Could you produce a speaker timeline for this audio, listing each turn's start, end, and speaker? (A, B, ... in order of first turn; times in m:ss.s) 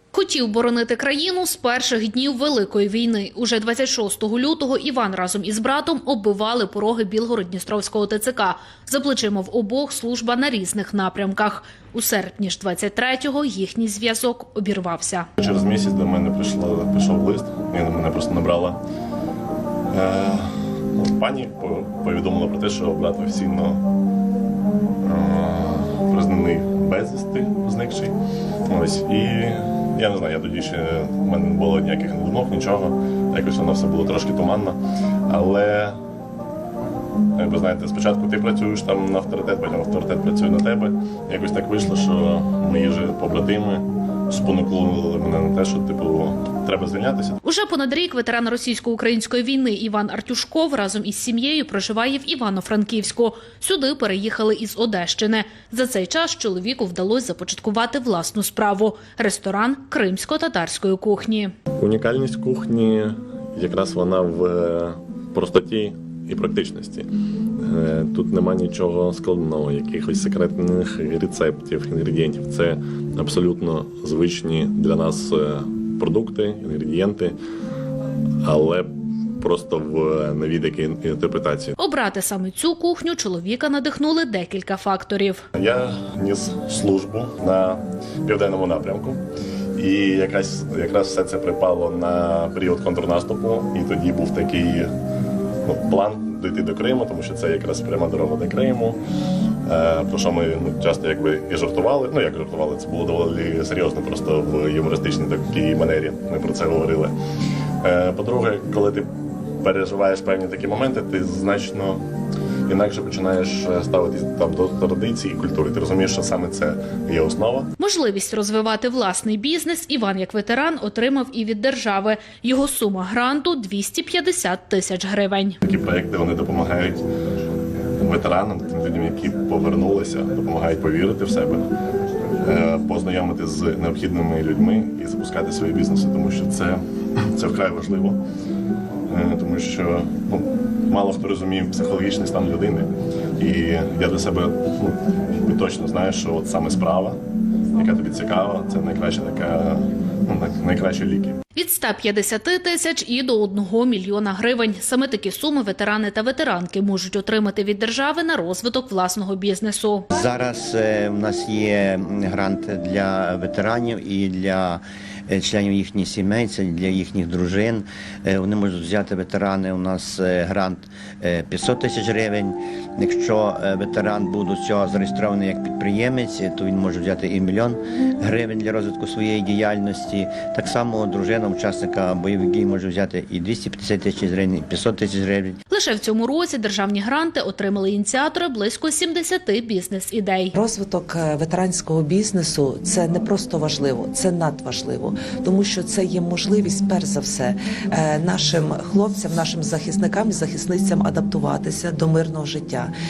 0:00.1-0:15.3 A
0:15.4-0:18.8 B
0:19.9-0:23.8 B
0:25.0-0:28.1 B
0:28.7-0:34.8 B
0:35.3-0:35.9 B
0:37.4-0:47.4 B
0:47.4-1:01.5 A
1:01.8-1:07.1 B
1:07.6-1:17.4 B
1:18.4-1:21.7 B
1:21.8-1:25.4 A
1:25.6-1:29.2 B
1:29.8-1:34.9 B
1:35.6-1:39.0 B
1:39.6-1:47.1 B
1:47.8-1:49.1 B
1:49.6-1:52.0 B
1:52.7-1:57.7 B
1:57.8-2:05.6 A
2:05.6-2:07.0 B
2:08.0-2:11.6 B
2:12.4-2:16.8 B
2:17.3-2:18.2 B
2:19.1-2:27.2 B
2:27.7-2:31.4 B
2:31.6-2:40.1 A
2:40.1-3:05.6 C
3:05.7-3:10.5 A
3:10.5-3:22.9 D